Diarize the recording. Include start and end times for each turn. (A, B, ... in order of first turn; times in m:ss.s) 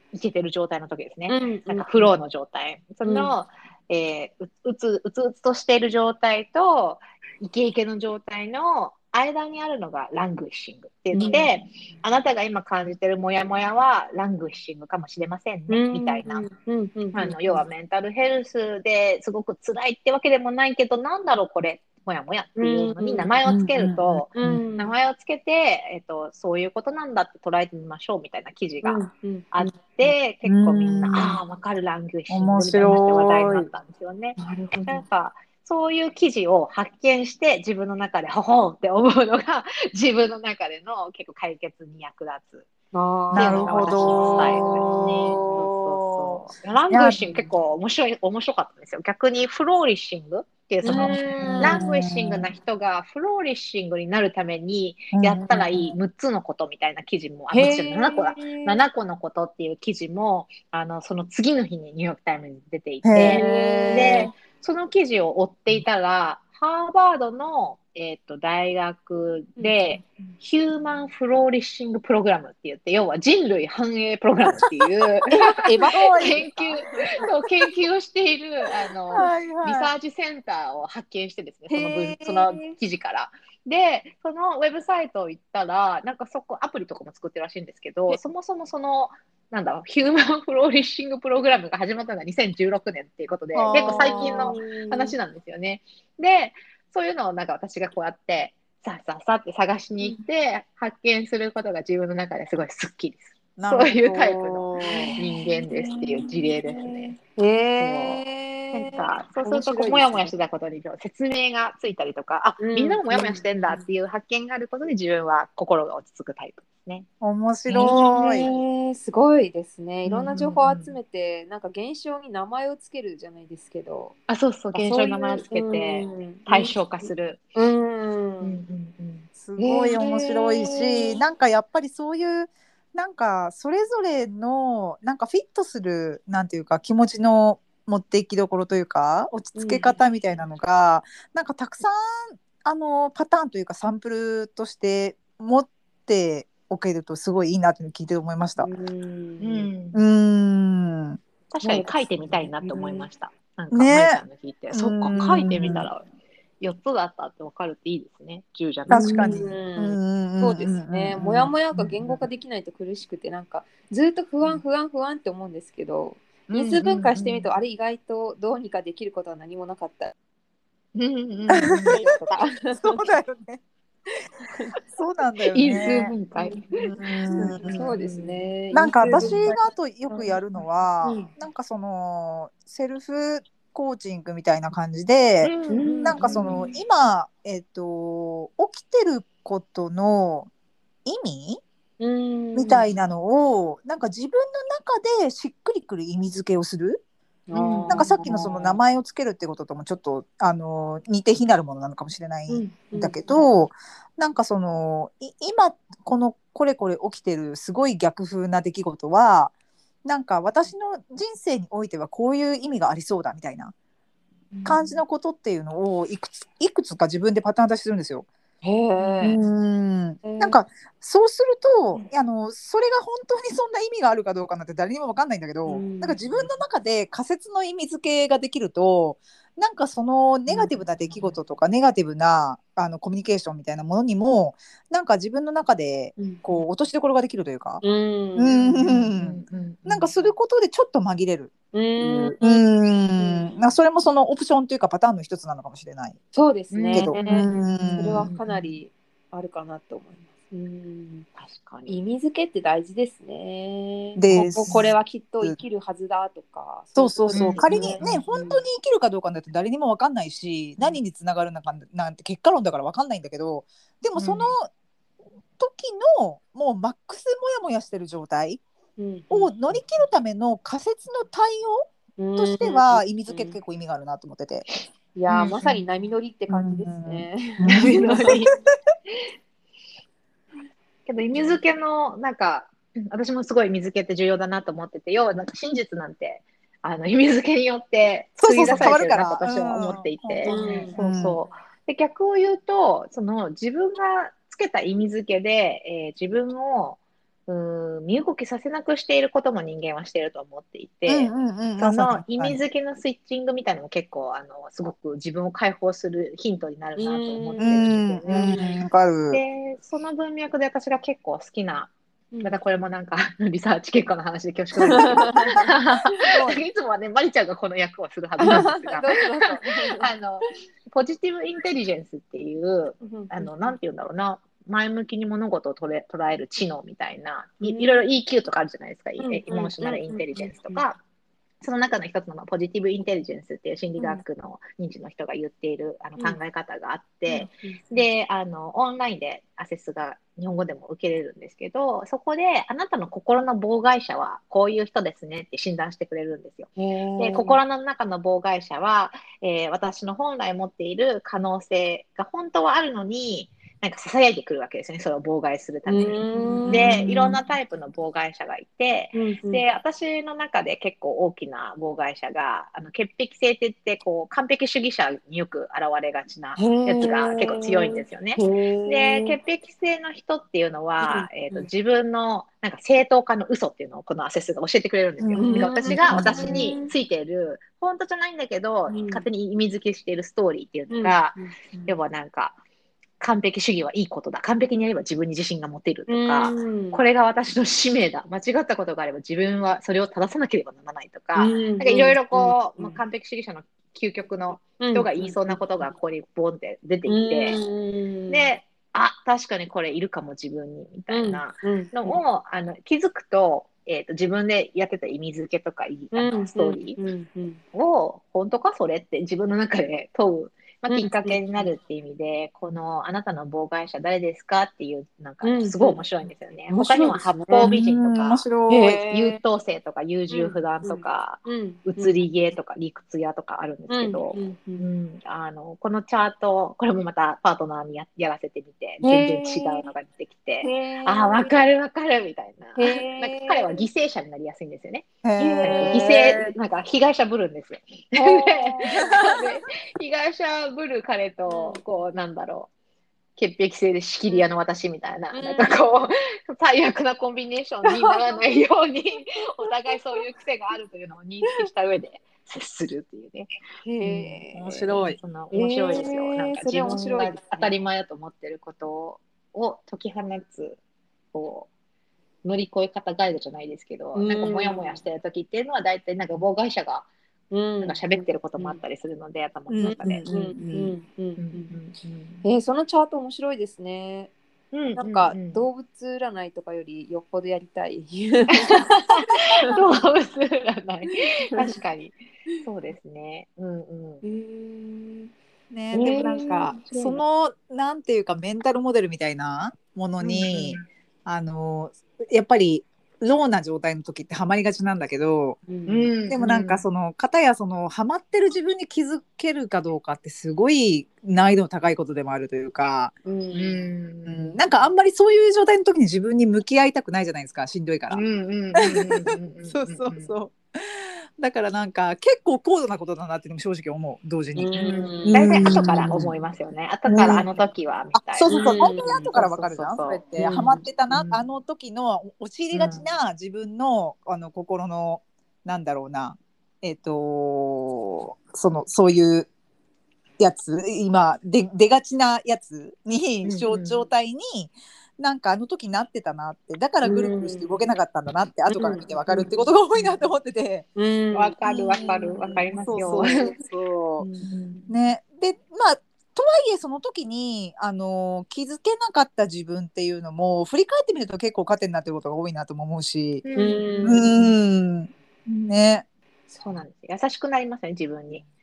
0:00.1-0:16.5 A
0:01.3-0:02.1 B
0:03.0-0:03.3 B
0:11.1-0:11.5 B
0:15.7-0:17.6 B
0:17.1-0:42.7 A
0:22.6-0:23.3 B
0:23.4-0:24.6 C
0:24.4-0:24.9 B
0:28.8-0:29.7 B
0:30.4-0:31.4 C
0:32.3-0:33.7 C
0:34.4-0:35.0 B
0:42.9-0:45.7 B
0:43.3-0:47.2 C
0:43.3-1:47.2 A
0:47.2-0:47.4 B
0:50.8-0:51.8 B
0:50.8-0:52.5 C
0:55.1-0:55.9 C
0:57.5-0:58.8 B
1:03.0-1:04.3 C
1:03.2-1:04.3 B
1:09.6-1:10.0 B
1:15.3-1:16.8 B
1:15.5-1:16.5 C
1:19.1-1:19.9 C
1:21.7-1:22.8 B
1:33.5-1:34.6 C
1:33.7-1:35.2 B
1:43.6-1:45.2 C
1:44.8-1:45.9 B
1:46.7-1:50.1 B
1:47.8-1:57.1 A
1:49.5-1:50.3 C
1:52.6-1:53.9 B
1:57.2-1:58.5 C
1:57.7-1:58.5 A
1:57.7-2:04.1 B
2:00.0-2:00.9 A
2:04.3-2:07.4 A
2:04.7-2:08.6 B
2:08.4-2:09.3 A
2:09.4-2:28.7 C
2:09.6-2:11.2 B
2:19.5-2:20.0 B
2:28.6-2:29.7 B
2:29.4-2:30.0 A
2:29.9-2:31.2 C
2:31.5-2:36.0 A
2:31.6-2:33.1 B
2:33.7-2:35.9 C
2:35.4-2:35.8 B
2:36.6-2:39.5 A
2:38.9-2:41.5 C
2:38.9-2:50.1 B
2:41.2-2:42.2 A
2:46.5-2:47.5 A
2:50.9-2:52.5 A
2:51.5-2:52.0 C
2:51.9-2:53.0 B
2:52.7-2:53.6 C
2:54.9-2:56.1 C
2:55.5-2:58.4 A
2:56.4-2:56.7 B
2:56.8-2:57.9 C
2:57.3-2:59.6 B
2:58.7-3:10.5 C
2:59.0-2:59.6 A
3:00.1-3:00.3 A
3:01.0-3:01.3 A
3:05.4-3:06.6 A
3:05.7-3:06.7 B
3:11.0-3:11.6 C
3:12.0-3:12.9 B
3:12.5-3:17.0 C
3:17.5-3:18.8 B
3:17.5-3:18.1 A
3:17.9-3:29.5 C
3:22.5-3:23.4 B
3:30.0-3:33.7 C
3:34.5-3:34.9 B
3:34.6-3:38.3 C
3:38.6-3:39.4 B
3:39.0-3:39.2 A
3:39.2-3:57.8 C
3:40.2-3:40.6 B
3:45.6-3:46.5 B
3:50.5-3:50.7 B
3:56.2-3:56.4 B
3:57.8-3:59.0 B
3:58.4-4:06.2 C
3:58.8-4:00.3 A
4:01.7-4:03.6 B
4:06.3-4:11.3 B
4:06.7-4:07.5 A
4:06.9-4:08.3 C
4:08.2-4:08.7 A
4:11.4-4:12.0 A
4:11.9-4:18.6 B
4:14.2-4:15.6 C
4:17.0-4:24.7 C
4:17.3-4:18.2 A
4:24.2-4:24.5 A
4:25.6-4:28.6 C
4:29.0-4:29.5 B
4:29.3-4:31.8 C
4:32.2-4:33.6 B
4:32.4-4:34.7 C
4:35.1-4:38.4 B
4:35.3-4:35.8 A
4:36.5-4:38.5 C
4:37.7-4:38.5 A
4:41.0-5:08.7 A
4:48.4-4:51.4 C
4:50.4-4:50.9 B
5:01.1-5:02.6 C
5:07.0-5:08.8 B
5:07.6-5:09.4 C
5:09.3-5:31.0 A
5:12.3-5:12.6 B
5:14.7-5:15.6 C
5:14.9-5:16.6 B
5:18.4-5:20.1 B
5:23.0-5:23.8 B
5:27.6-5:28.0 B
5:29.2-5:30.8 B
5:31.6-6:22.6 A
5:34.0-5:34.2 B
5:37.3-5:38.0 B
5:46.8-5:47.6 B
5:55.8-5:57.4 B
5:59.1-5:59.6 B
6:06.6-6:09.4 B
6:11.0-6:11.7 B
6:15.2-6:16.8 C
6:15.4-6:16.9 B
6:18.9-6:19.2 B
6:20.9-6:21.9 B
6:23.2-6:37.6 A
6:26.1-6:27.0 B
6:31.3-6:33.0 B
6:34.8-6:35.9 B
6:37.1-6:38.5 B
6:38.3-6:47.0 A
6:41.1-6:42.2 B
6:46.1-6:47.6 B
6:47.7-6:58.4 A
6:50.9-6:51.7 B
6:55.4-6:56.0 B
6:56.7-6:57.7 B
6:57.5-6:59.0 C
6:58.7-6:59.4 B
6:59.1-7:15.1 A
7:00.3-7:02.2 B
7:03.9-7:04.9 B
7:09.0-7:09.9 B
7:10.6-7:11.5 B
7:12.8-7:13.8 B
7:15.2-7:16.5 C
7:15.4-7:16.3 B
7:15.6-7:22.7 A
7:18.1-7:19.2 B
7:21.5-7:21.8 B
7:23.4-7:33.5 A
7:25.3-7:25.9 B
7:27.9-7:28.4 B
7:33.8-7:37.7 B
7:34.1-7:34.4 A
7:34.5-7:35.2 C
7:35.2-7:40.8 A
7:41.3-7:41.7 A
7:42.4-7:47.1 A
7:44.1-7:45.0 B
7:47.5-7:48.8 B
7:47.8-7:50.3 A
7:49.7-7:50.9 C
7:49.8-7:51.7 B
7:51.4-7:52.4 A
7:52.4-7:54.3 B
7:54.7-7:55.6 A
7:55.0-7:58.9 B
7:58.7-8:04.2 A
7:59.5-7:59.8 B
8:04.2-8:05.3 B
8:05.7-8:15.6 C
8:05.9-8:07.1 A
8:05.9-8:07.2 B
8:10.2-8:10.8 A
8:15.7-8:16.1 B
8:15.9-8:16.8 A
8:16.3-8:23.1 C
8:23.2-8:23.9 B
8:23.5-8:24.6 A
8:24.2-8:28.2 C
8:28.1-8:30.3 A
8:28.8-8:29.2 C
8:29.7-8:36.3 C
8:34.6-8:36.3 B
8:34.7-8:41.4 A
8:37.1-8:37.5 C
8:38.1-8:49.5 C
8:38.5-8:39.3 B
8:40.4-8:40.8 B
8:42.7-8:43.0 A
8:50.4-9:00.8 C
8:53.4-8:54.0 A
8:57.0-8:57.8 B
8:58.7-8:59.5 B
9:01.0-9:03.5 B
9:01.3-9:03.5 A
9:01.7-9:02.2 C
9:02.8-9:04.3 C
9:04.2-9:04.5 B
9:04.4-9:04.9 A
9:04.9-9:13.4 C
9:13.4-9:14.4 A
9:13.6-9:14.3 B
9:14.0-9:16.0 C
9:16.5-9:18.4 A